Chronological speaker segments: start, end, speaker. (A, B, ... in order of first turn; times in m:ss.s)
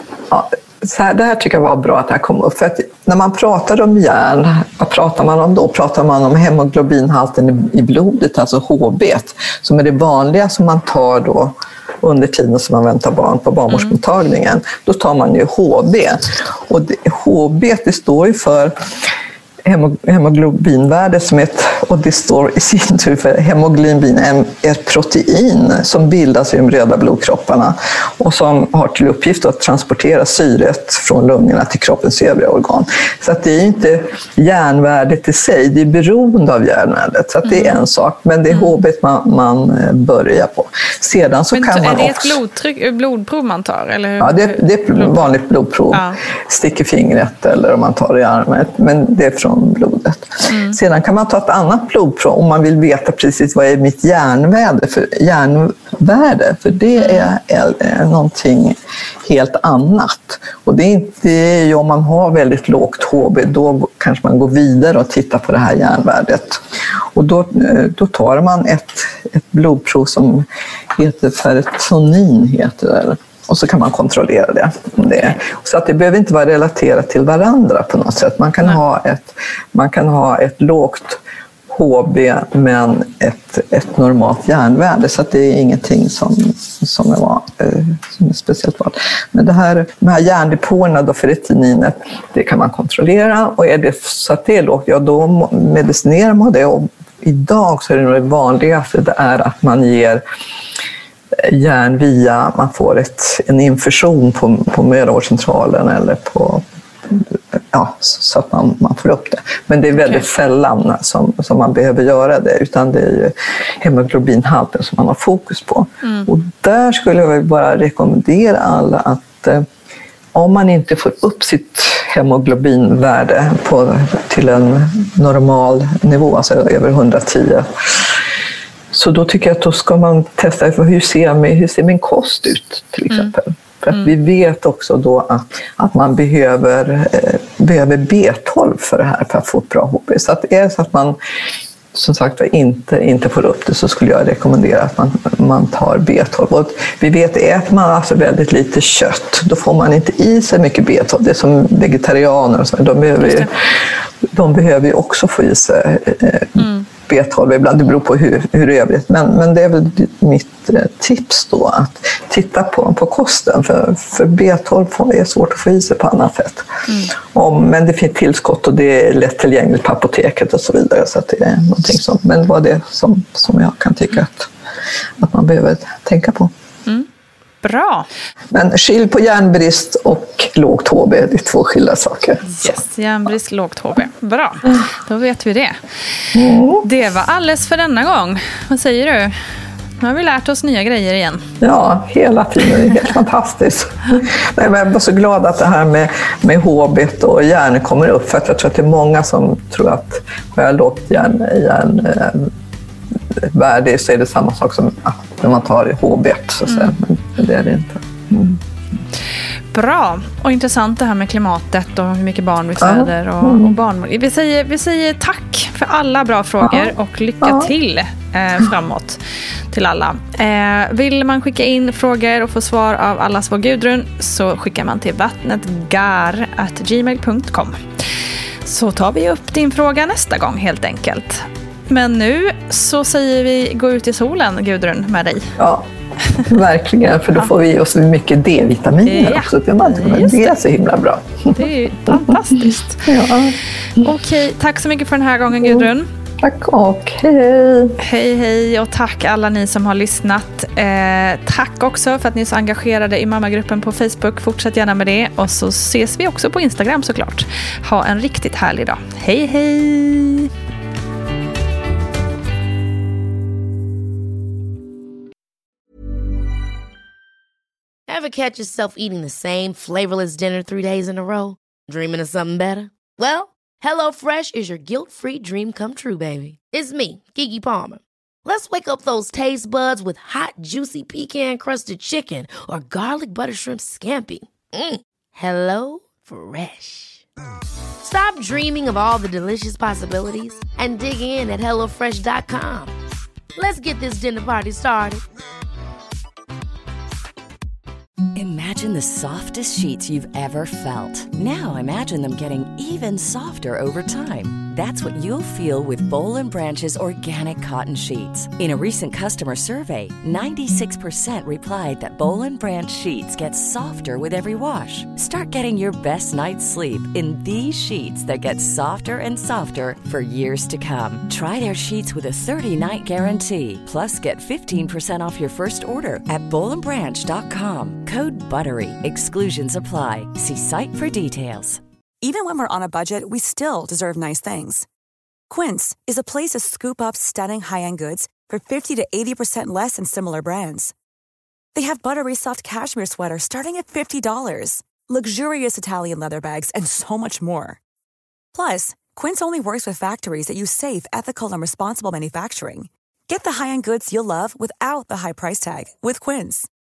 0:00.3-0:18.8 A
0:19.6-0:42.4 A
0:37.4-0:37.8 B
0:41.5-0:45.3 B
0:44.2-1:06.6 A
0:45.9-0:46.2 B
0:50.5-0:50.8 B
0:57.0-0:57.3 B
1:07.1-1:40.2 A
1:41.4-1:59.7 A
1:50.0-1:50.3 B
1:56.0-1:56.3 B
2:00.3-2:08.1 A
2:08.9-2:21.2 A
2:21.9-2:33.5 A
2:33.2-2:33.5 B
2:34.3-2:54.5 A
2:36.6-2:36.9 B
2:55.2-2:56.5 A
2:57.6-2:58.1 B
2:58.5-3:02.7 A
3:02.5-3:05.8 B
3:06.4-3:06.8 A
3:06.8-3:09.3 B
3:10.0-3:11.4 B
3:11.6-3:22.5 A
3:23.4-3:28.6 A
3:26.7-3:26.9 B
3:29.7-3:47.8 B
3:32.8-3:33.8 A
3:36.6-3:37.7 A
3:48.6-3:55.5 B
3:55.6-3:55.9 A
3:56.3-3:56.6 B
3:56.4-4:02.4 A
3:59.0-4:00.6 B
4:01.5-4:03.2 B
4:03.1-4:04.1 A
4:04.0-4:06.1 B
4:05.5-4:05.9 A
4:06.4-4:08.0 A
4:08.0-4:20.5 B
4:28.1-4:47.2 C
4:48.0-4:52.9 C
4:53.6-4:55.2 C
4:58.4-5:31.8 D
5:32.2-5:34.9 E
5:35.5-5:40.9 E
5:41.7-5:47.8 E
5:48.5-5:56.7 E